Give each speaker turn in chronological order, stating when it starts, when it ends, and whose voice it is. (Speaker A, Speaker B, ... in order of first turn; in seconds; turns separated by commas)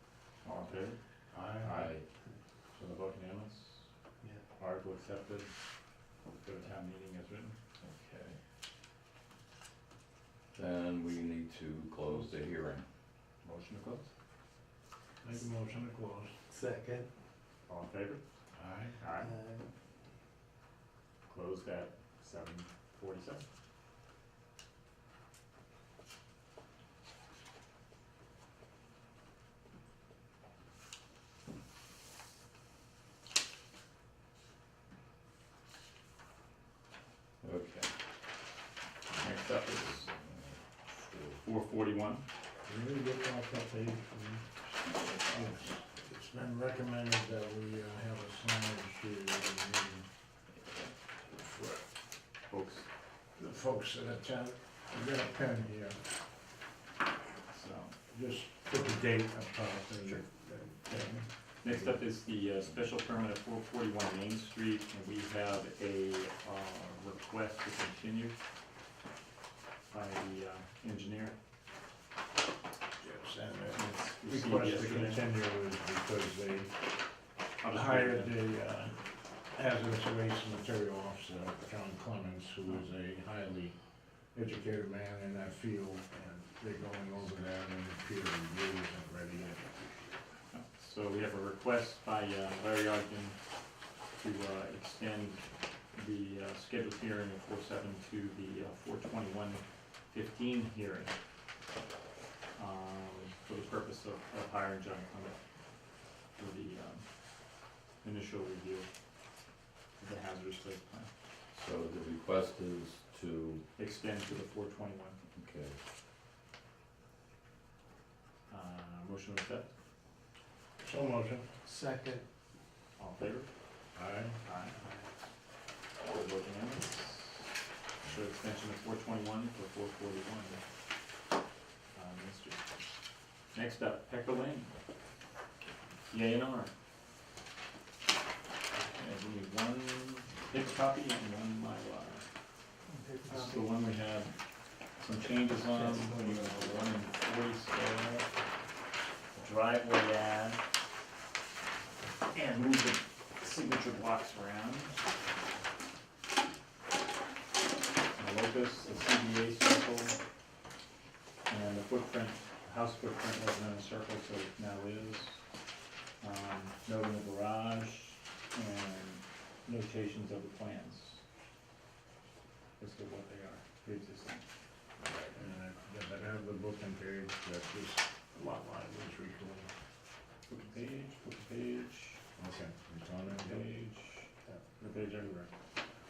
Speaker A: 0.4-1.0, Speaker B: 1.3-1.7, Speaker A: 1.6-1.9, Speaker C: 1.7-2.0, Speaker A: 2.7-3.9, Speaker A: 4.5-5.5, Speaker A: 6.4-7.5, Speaker C: 7.8-8.4, Speaker C: 10.5-12.8, Speaker A: 13.4-14.1, Speaker B: 15.2-16.3, Speaker D: 16.5-17.1, Speaker A: 17.7-18.2, Speaker B: 18.5-19.0, Speaker A: 19.0-19.3, Speaker D: 19.2-19.7, Speaker A: 21.2-23.4, Speaker C: 37.4-37.9, Speaker A: 39.2-40.1, Speaker C: 39.9-41.4, Speaker A: 41.4-42.2, Speaker B: 42.6-50.1, Speaker B: 51.3-51.9, Speaker A: 52.5-52.9, Speaker B: 53.3-56.0, Speaker A: 57.5-57.9, Speaker B: 58.1-61.9, Speaker A: 60.9-68.3, Speaker A: 69.9-71.3, Speaker B: 73.0-76.7, Speaker A: 73.7-75.3, Speaker A: 77.6-78.4, Speaker B: 77.7-79.0, Speaker B: 79.5-83.8, Speaker B: 84.3-90.0, Speaker A: 90.5-93.3, Speaker A: 94.2-95.4, Speaker A: 95.9-101.2, Speaker A: 102.5-105.3, Speaker A: 106.3-107.0, Speaker A: 108.0-108.9, Speaker A: 110.0-111.1, Speaker C: 111.5-113.6, Speaker A: 113.8-115.2, Speaker C: 115.3-115.8, Speaker A: 118.5-119.7, Speaker B: 120.8-121.5, Speaker D: 121.6-122.2, Speaker A: 123.0-123.5, Speaker B: 123.9-124.4, Speaker A: 124.4-124.8, Speaker D: 124.7-125.2, Speaker A: 126.0-127.5, Speaker A: 128.0-130.6, Speaker A: 131.9-132.6, Speaker A: 133.5-134.7, Speaker A: 136.1-136.7, Speaker A: 138.8-142.3, Speaker D: 143.0-143.7, Speaker A: 143.3-144.3, Speaker A: 145.0-148.3, Speaker D: 145.7-146.8, Speaker A: 149.3-150.6, Speaker A: 152.3-155.1, Speaker A: 158.2-160.2, Speaker A: 161.5-165.4, Speaker A: 166.2-171.2, Speaker A: 172.8-174.4, Speaker A: 175.1-175.4, Speaker B: 175.3-179.7, Speaker A: 180.5-182.2, Speaker B: 182.4-183.7, Speaker A: 183.2-185.5